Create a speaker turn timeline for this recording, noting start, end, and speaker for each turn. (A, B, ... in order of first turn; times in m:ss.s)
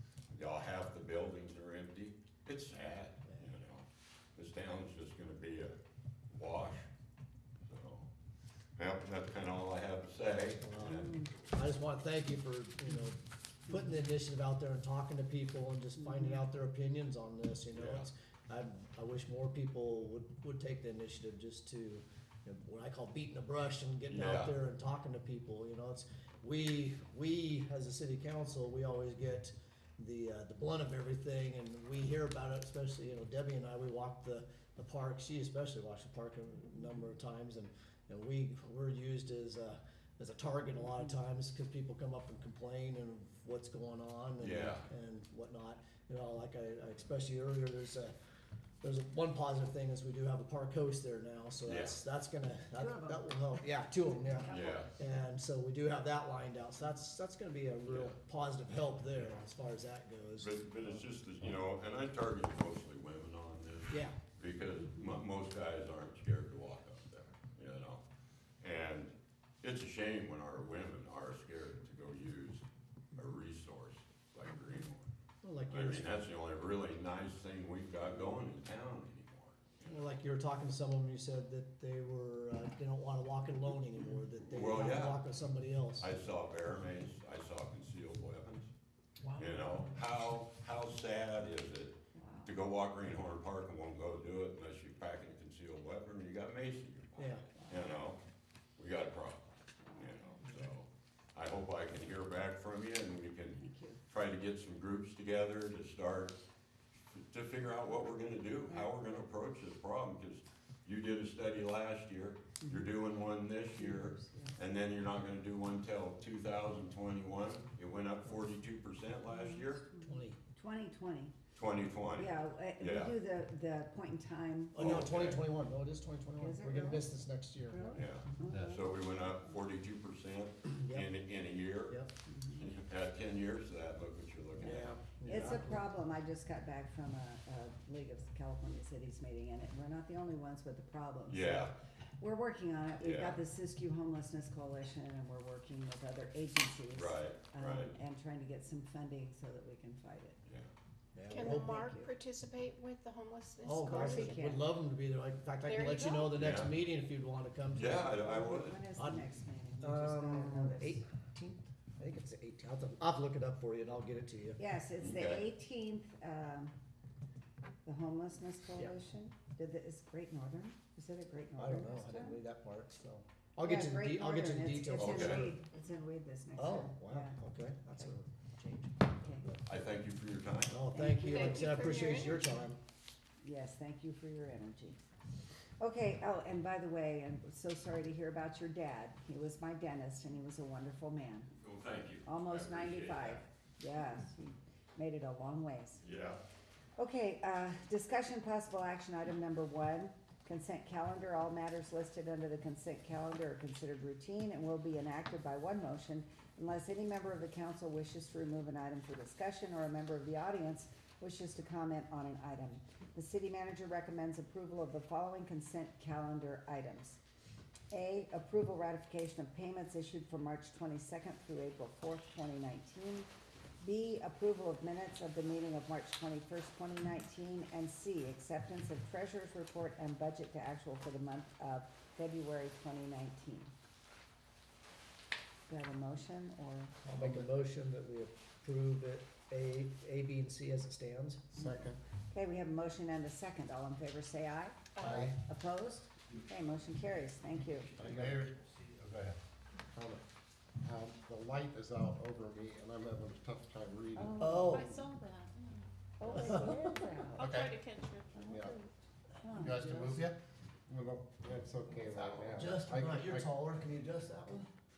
0:00.3-0:05.7 A
0:06.3-0:06.9 A
0:07.6-0:08.1 A
0:08.8-0:11.2 A
0:10.6-0:48.1 B
0:10.8-0:11.3 C
0:17.7-0:18.1 A
0:24.1-0:24.5 A
0:44.4-0:44.9 A
0:48.8-1:01.0 B
0:51.6-0:52.0 A
0:52.8-0:53.3 C
0:54.4-0:54.9 C
0:54.5-0:54.9 A
0:57.9-0:58.2 A
1:00.4-1:08.0 A
1:03.9-1:04.2 B
1:08.6-1:15.1 A
1:15.4-1:16.2 B
1:15.7-1:20.1 A
1:19.8-1:26.1 B
1:24.5-1:25.2 A
1:26.0-1:28.7 A
1:29.3-1:38.2 A
1:32.2-1:32.5 C
1:37.2-1:37.5 B
1:38.8-1:46.4 A
1:43.6-1:44.0 C
1:47.1-1:59.8 A
1:52.6-1:52.9 C
1:53.8-1:54.5 C
1:59.3-2:01.3 C
2:00.0-2:00.4 B
2:01.5-2:03.1 A
2:02.2-2:05.1 C
2:04.7-2:08.0 B
2:04.8-2:05.4 A
2:06.4-2:07.0 C
2:07.7-2:08.8 C
2:07.9-2:12.0 A
2:10.8-2:11.1 B
2:12.3-2:12.6 C
2:12.5-2:15.6 A
2:14.6-2:15.8 B
2:15.2-2:30.4 C
2:21.3-2:21.7 A
2:23.0-2:23.4 A
2:26.9-2:27.9 A
2:31.1-2:31.8 B
2:31.3-2:34.3 D
2:31.4-2:32.1 C
2:33.6-2:38.1 B
2:33.8-2:34.6 C
2:35.6-2:36.3 D
2:36.3-2:36.7 A
2:37.7-2:38.8 A
2:38.2-2:41.0 C
2:39.0-2:39.2 B
2:39.8-2:44.6 B
2:44.6-2:46.7 C
2:45.0-2:45.4 A
2:47.8-2:52.4 C
2:51.6-2:55.6 B
2:53.6-2:57.4 C
2:54.9-2:55.5 A
2:56.6-2:59.6 B
2:59.2-2:59.5 C
2:59.6-3:00.8 A
3:00.7-3:02.8 B
3:00.9-3:01.7 C
3:01.1-3:02.6 D
3:03.4-3:05.0 C
3:05.8-3:11.5 C
3:11.5-3:13.4 A
3:12.2-3:16.0 C
3:16.0-3:16.4 A
3:17.0-3:37.2 C
3:37.9-3:43.3 C
3:43.8-3:53.7 C
3:55.7-3:57.4 C
3:57.0-4:01.6 B
4:01.6-4:02.0 E
4:02.3-4:07.9 C
4:05.0-4:05.3 D
4:05.0-4:05.4 E
4:08.0-4:09.3 E
4:09.9-4:10.2 E
4:10.8-4:14.4 E
4:14.4-4:15.0 B
4:14.6-4:15.8 D
4:16.2-4:17.5 C
4:17.4-4:17.7 E
4:17.4-4:18.6 D
4:18.4-4:18.7 C
4:18.5-4:18.8 E
4:19.4-4:20.2 C
4:19.6-4:20.4 E
4:20.9-4:23.5 E
4:22.1-4:24.7 B